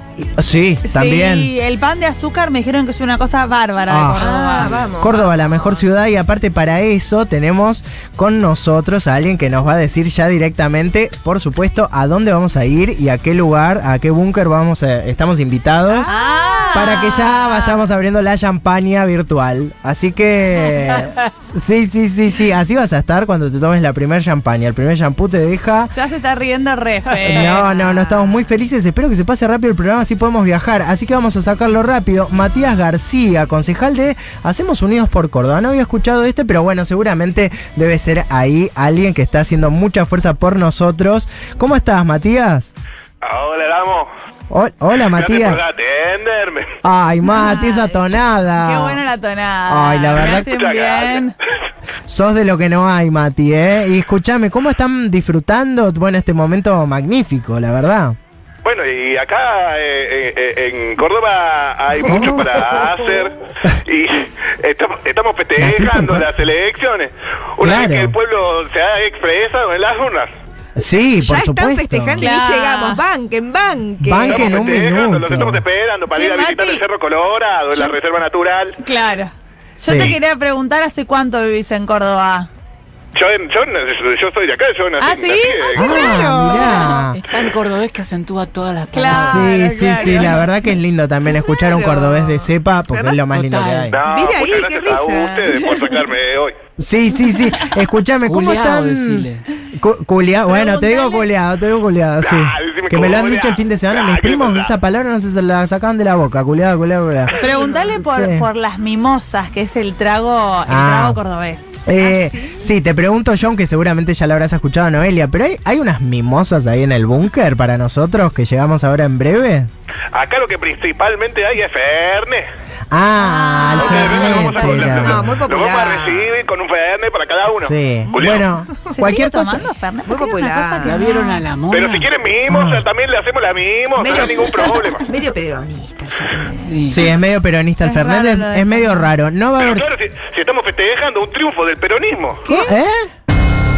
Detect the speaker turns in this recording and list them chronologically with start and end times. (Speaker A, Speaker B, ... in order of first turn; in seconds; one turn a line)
Speaker A: 0.2-1.5
Speaker B: 0.9-4.8
Speaker A: 3.9-16.1
Speaker C: 4.0-6.0
Speaker D: 4.6-4.9
Speaker B: 16.0-17.8
Speaker A: 16.7-25.9
Speaker B: 25.9-28.2
Speaker A: 27.2-42.7
Speaker E: 43.2-44.1
Speaker A: 44.5-45.6
Speaker E: 45.0-46.7
Speaker A: 46.8-49.0
Speaker C: 47.2-48.0
Speaker B: 48.5-51.3
Speaker A: 49.7-50.5
Speaker E: 50.1-51.3
Speaker A: 52.1-58.2
Speaker E: 58.6-70.3
Speaker A: 62.0-62.6
Speaker A: 65.6-66.3
Speaker A: 67.6-68.2
Speaker A: 70.8-72.3
Speaker C: 71.2-74.8
Speaker B: 72.2-73.0
Speaker A: 74.0-75.6
Speaker E: 74.2-78.8
Speaker B: 76.1-76.8
Speaker B: 78.8-82.5
Speaker A: 79.8-80.2
Speaker E: 83.1-86.2
Speaker B: 85.0-87.1
Speaker A: 85.8-87.2
Speaker C: 85.9-87.0
Speaker D: 87.1-89.5
Speaker B: 88.9-90.4
Speaker A: 89.1-94.0
Speaker C: 91.5-93.3
Speaker D: 93.3-94.0
Speaker E: 93.9-96.5
Speaker C: 94.0-95.9
Speaker A: 96.8-107.4
Speaker D: 98.2-99.4
Speaker C: 100.5-101.3
Speaker E: 102.2-104.8
Speaker C: 107.3-108.0
Speaker B: 107.3-111.8
Speaker A: 108.1-108.5
Speaker A: 110.7-111.2
Speaker A: 111.8-119.7
Speaker C: 112.0-112.7
Speaker E: 120.1-122.5
Speaker A: 122.9-125.3
Speaker B: 123.2-125.1
Speaker E: 123.8-128.5
Speaker C: 124.7-126.4
Speaker A: 127.5-129.7
Speaker C: 128.1-129.1
Speaker B: 129.0-131.4
Speaker C: 130.1-131.0
Speaker D: 130.8-132.1
Speaker E: 131.7-135.1
Speaker A: 132.5-132.8
Speaker C: 134.0-136.8
Speaker D: 136.6-137.0
Speaker A: 136.9-139.8
Speaker B: 137.8-139.1
Speaker E: 139.6-142.4
Speaker B: 142.4-142.7
Speaker A: 142.5-143.1